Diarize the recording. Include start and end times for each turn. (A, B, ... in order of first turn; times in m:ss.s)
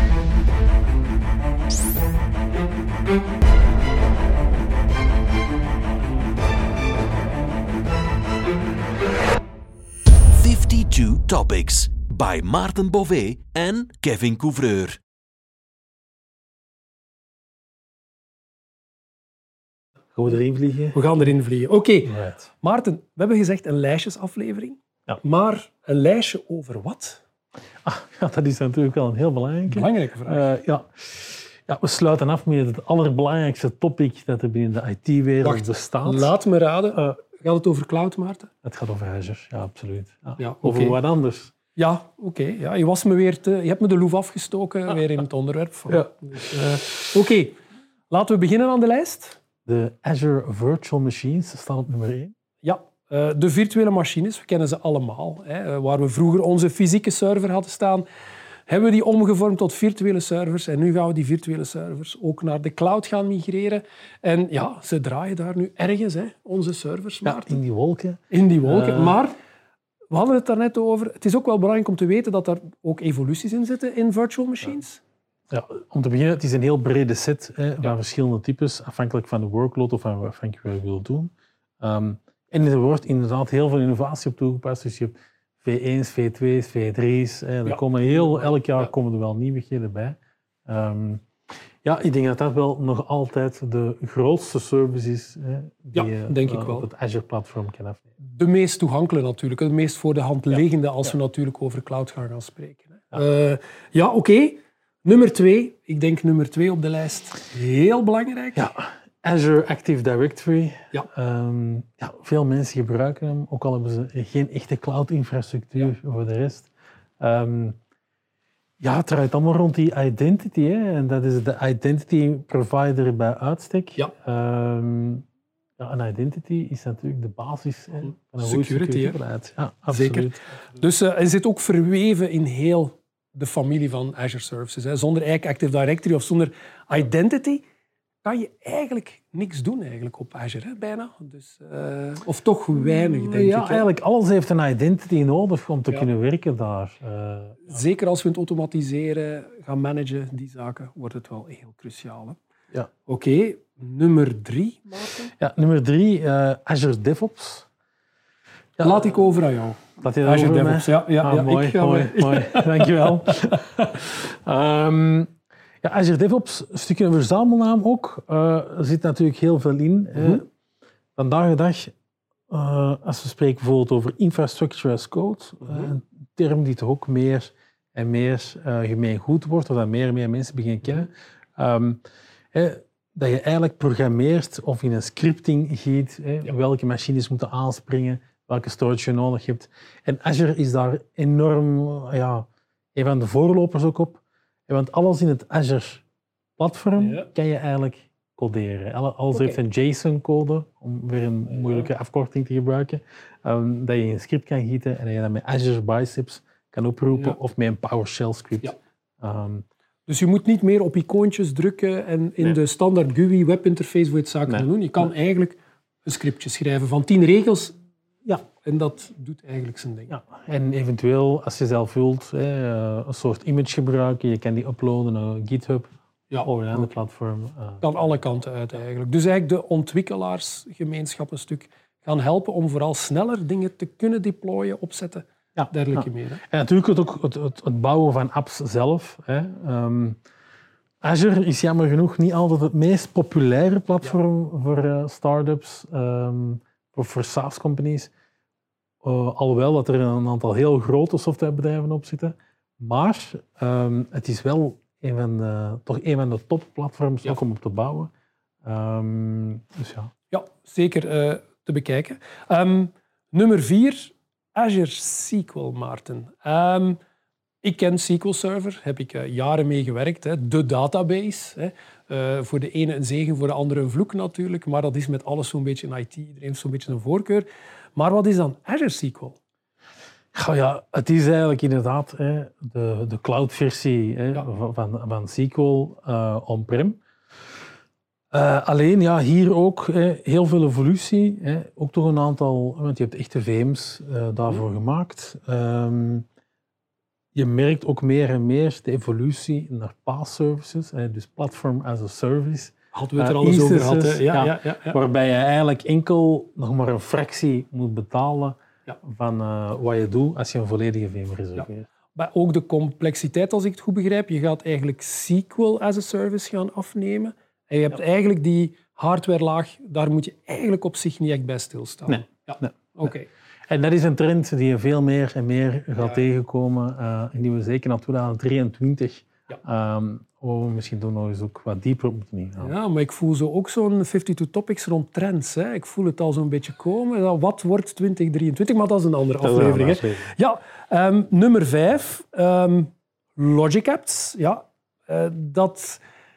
0:10.3-0:15.0 A
0:20.2-0:21.0 B
0:20.9-0:27.2 C
0:22.1-0:22.5 B
0:27.8-0:36.3 B
0:29.7-0:30.5 C
0:35.4-0:38.5 C
0:38.6-0:41.5 B
0:40.4-0:41.0 C
0:41.8-0:47.6 C
0:45.9-0:46.9 B
0:48.1-0:49.4 C
0:49.6-0:52.3 B
0:52.6-0:58.0 C
0:58.7-1:07.6 C
1:07.2-1:09.2 B
1:08.3-1:09.4 C
1:10.1-1:15.0 C
1:15.5-1:31.2 B
1:27.7-1:28.9 C
1:31.8-1:38.1 B
1:35.9-1:36.9 C
1:38.2-1:48.7 C
1:48.6-1:57.8 B
1:58.8-2:05.2 B
2:05.8-2:10.4 B
2:08.2-2:09.2 C
2:09.9-2:17.6 C
2:18.2-2:23.9 C
2:22.8-2:27.7 B
2:27.6-2:32.4 C
2:33.0-2:35.3 C
2:35.4-2:37.7 B
2:38.8-2:39.2 B
2:38.8-2:43.6 C
2:40.0-2:45.3 B
2:45.8-2:50.4 B
2:50.2-2:50.4 C
2:51.2-2:51.9 B
2:52.5-3:02.0 B
2:55.6-2:55.9 C
3:02.5-3:16.0 B
3:16.6-3:29.6 B
3:17.0-3:17.3 C
3:19.3-3:19.6 C
3:21.5-3:21.9 C
3:30.1-3:37.8 C
3:38.4-3:40.2 C
3:40.1-3:48.0 B
3:46.3-3:46.9 C
3:47.8-3:56.4 C
3:55.6-4:00.2 B
4:01.0-4:08.1 B
4:09.0-4:18.1 B
4:18.6-4:20.1 B
4:20.3-4:27.0 C
4:27.6-4:39.4 C
4:40.3-4:47.0 B
4:48.3-4:56.2 B
4:57.4-5:11.9 B
5:02.9-5:05.0 C
5:11.6-5:23.3 C
5:22.1-5:23.1 B
5:23.7-5:32.8 B
5:32.6-5:46.0 C
5:39.4-5:40.3 B